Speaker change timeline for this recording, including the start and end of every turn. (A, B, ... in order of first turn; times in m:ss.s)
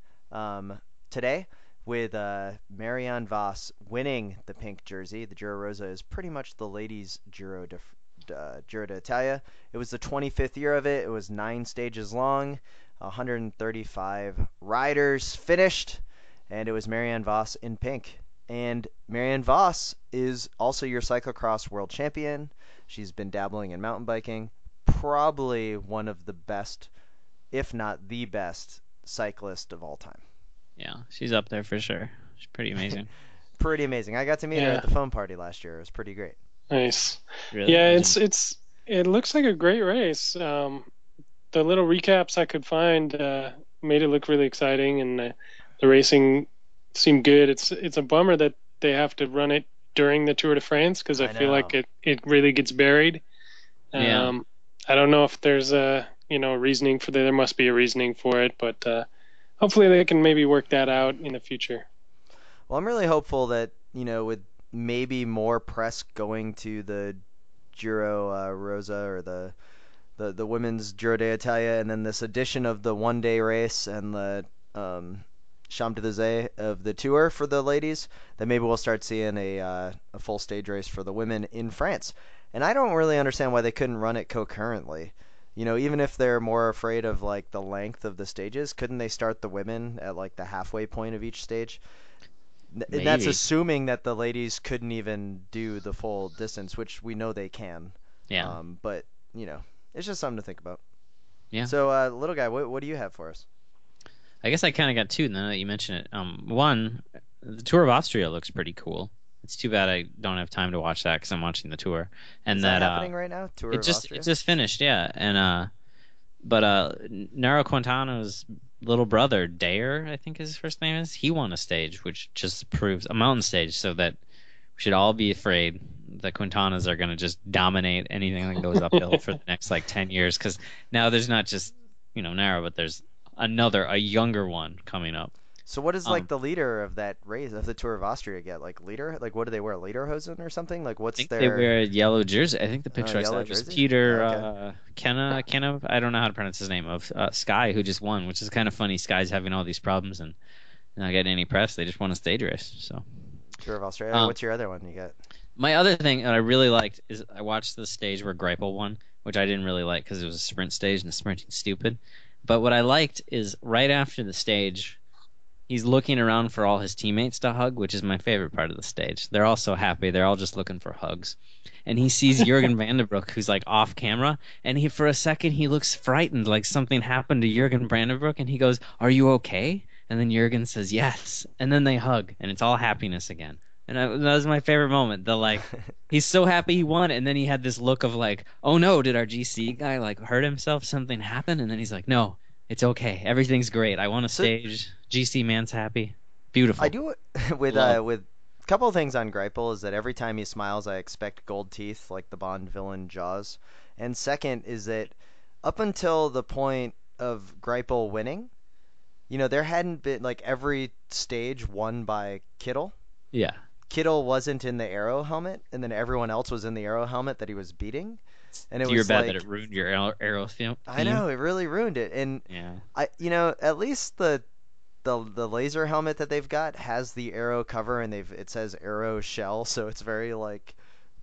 0:00.3-0:26.9 A
0:27.5-0:30.2 A
0:30.8-0:33.1 B
0:33.6-0:36.4 A
0:34.5-0:34.8 C
0:36.7-0:40.9 C
0:37.5-0:38.2 B
0:41.5-0:53.2 C
0:51.1-0:51.7 A
0:53.9-0:59.1 C
0:54.0-0:54.3 B
0:59.6-1:01.9 C
1:02.7-1:07.2 A
1:07.7-1:09.5 A
1:10.2-1:31.8 A
1:32.7-1:40.8 A
1:32.9-1:33.4 B
1:38.3-1:38.6 B
1:41.6-1:43.4 A
1:44.4-1:53.1 B
1:52.5-1:54.3 A
1:53.7-1:55.7 B
1:56.4-2:04.2 B
2:04.8-2:15.3 B
2:08.9-2:09.2 C
2:15.6-2:21.7 A
2:21.2-2:30.4 B
2:23.0-2:24.5 A
2:31.0-2:33.0 B
2:33.6-2:35.1 A
2:35.6-2:45.0 B
2:45.7-3:16.9 B
3:16.8-3:28.5 A
3:17.7-3:18.0 B
3:29.3-3:32.9 A
3:33.3-3:33.6 B
3:33.9-3:39.4 A
3:38.8-3:41.2 B
3:40.9-3:42.4 A
3:42.5-3:42.8 B
3:42.9-3:44.4 A
3:45.0-3:50.8 A